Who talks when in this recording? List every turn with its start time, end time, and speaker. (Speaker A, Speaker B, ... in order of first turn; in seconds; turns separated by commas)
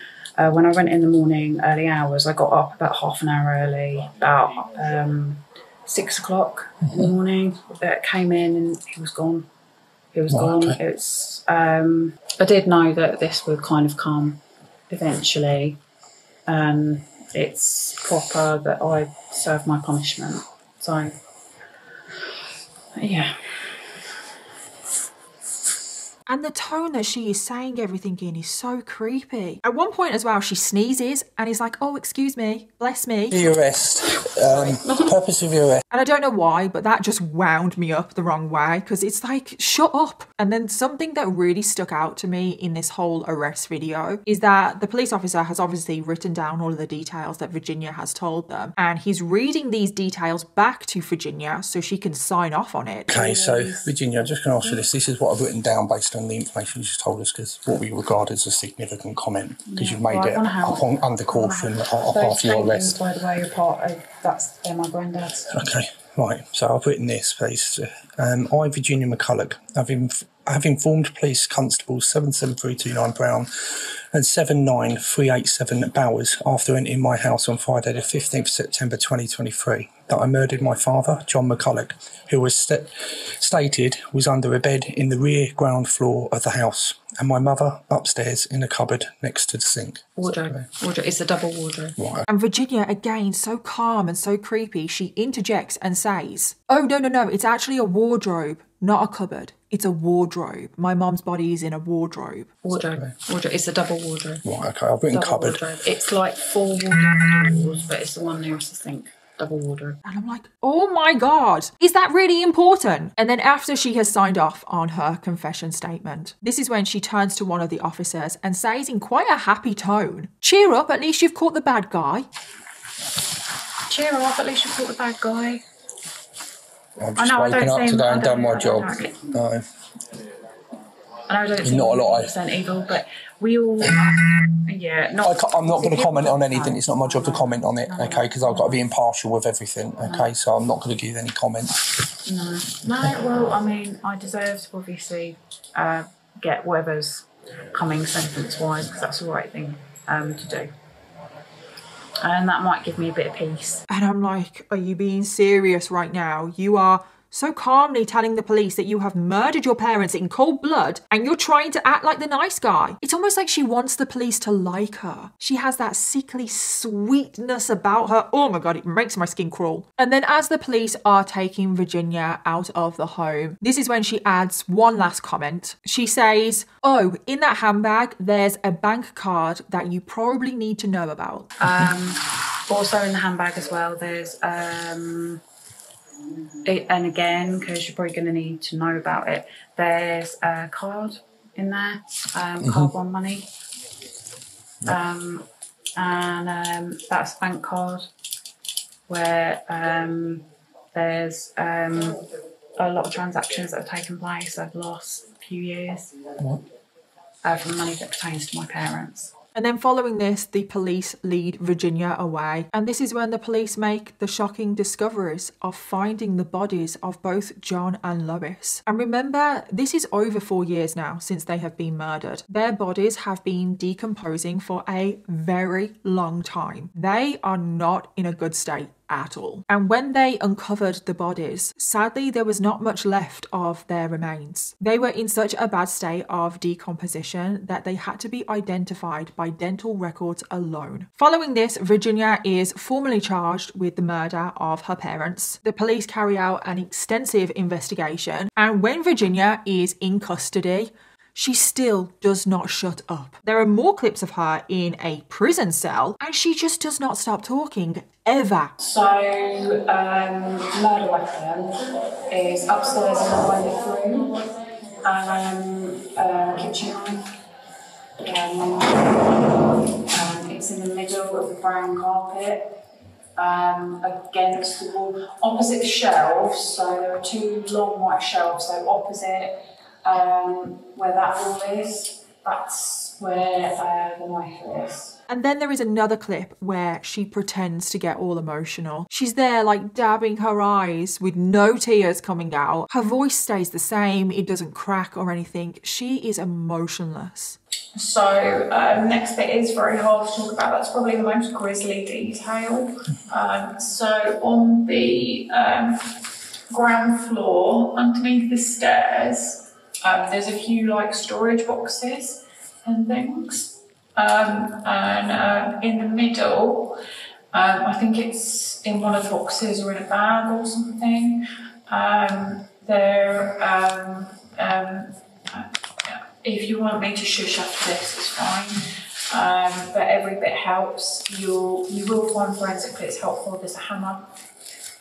Speaker A: 0.4-9.5, Speaker A: 10.1-15.8, Speaker B: 10.3-10.8, Speaker A: 16.5-21.1, Speaker A: 23.0-23.4, Speaker C: 26.3-33.4, Speaker B: 33.3-35.8, Speaker C: 35.9-53.2, Speaker A: 53.1-53.9, Speaker B: 53.1-63.0, Speaker A: 59.7-65.5, Speaker B: 65.5-90.6, Speaker A: 90.2-92.0, Speaker B: 92.0-92.3, Speaker C: 92.3-102.6, Speaker A: 102.6-104.4, Speaker B: 102.7-103.1, Speaker B: 104.4-105.6, Speaker A: 105.1-110.0, Speaker C: 110.0-122.3, Speaker A: 123.9-125.6, Speaker B: 127.0-129.7, Speaker A: 127.2-129.3, Speaker A: 131.3-138.8, Speaker B: 131.6-132.3, Speaker B: 135.2-141.8, Speaker A: 140.0-140.3, Speaker A: 142.2-150.7, Speaker A: 152.2-153.8, Speaker C: 153.9-181.6, Speaker A: 181.6-185.4, Speaker A: 186.7-193.5, Speaker B: 192.6-192.9, Speaker A: 194.8-195.4, Speaker A: 196.0-198.1, Speaker A: 199.1-202.2, Speaker A: 202.8-206.2, Speaker A: 207.4-209.3, Speaker C: 209.6-258.7, Speaker A: 258.8-264.4, Speaker A: 265.0-267.3, Speaker A: 268.2-272.8, Speaker A: 273.4-285.2, Speaker C: 285.3-297.6, Speaker A: 297.9-306.2, Speaker A: 306.7-317.0, Speaker A: 317.5-334.3